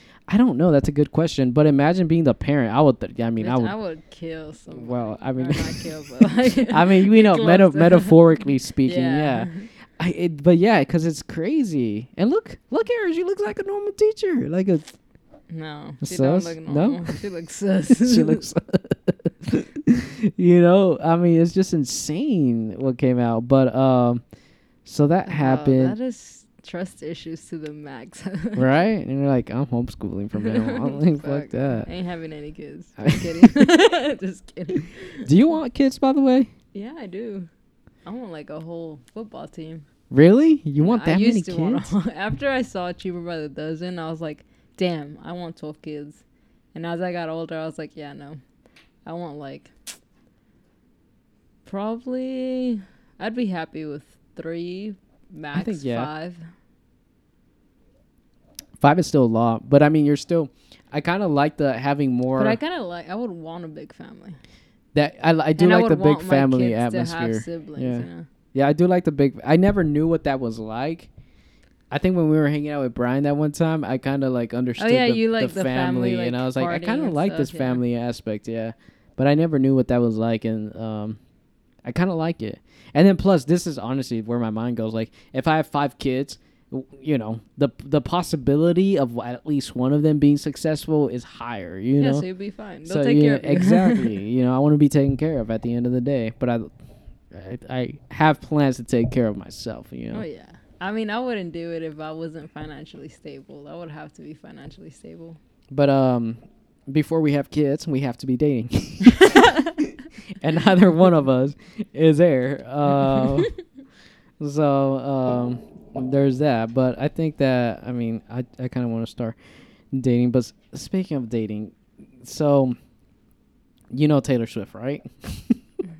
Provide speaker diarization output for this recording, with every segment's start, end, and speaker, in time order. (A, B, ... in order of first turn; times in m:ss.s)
0:00.3-0:03.7 A
0:03.4-0:08.2 B
0:04.7-0:14.8 A
0:08.8-0:09.7 B
0:15.5-0:18.4 B
0:16.0-0:17.2 A
0:17.9-0:24.2 A
0:24.8-0:26.0 A
0:25.3-0:28.8 B
0:28.5-0:31.9 A
0:30.3-0:35.3 B
0:33.0-0:33.5 A
0:35.2-0:36.5 A
0:36.7-0:37.5 B
0:38.0-0:39.8 B
0:40.1-0:41.9 A
0:40.8-0:46.2 B
0:46.7-0:48.4 B
0:49.0-0:49.7 B
0:51.6-0:56.4 B
0:55.5-0:56.1 A
0:58.8-1:02.6 A
1:02.3-1:04.4 B
1:04.9-1:11.1 A
1:05.6-1:08.2 B
1:11.9-1:21.2 A
1:14.8-1:17.8 B
1:21.8-1:32.2 A
1:32.0-1:34.2 B
1:32.8-1:36.7 A
1:37.3-1:40.2 A
1:40.1-1:45.4 B
1:45.7-1:53.5 A
1:54.4-1:59.4 A
1:59.9-2:02.8 A
2:03.9-2:05.6 A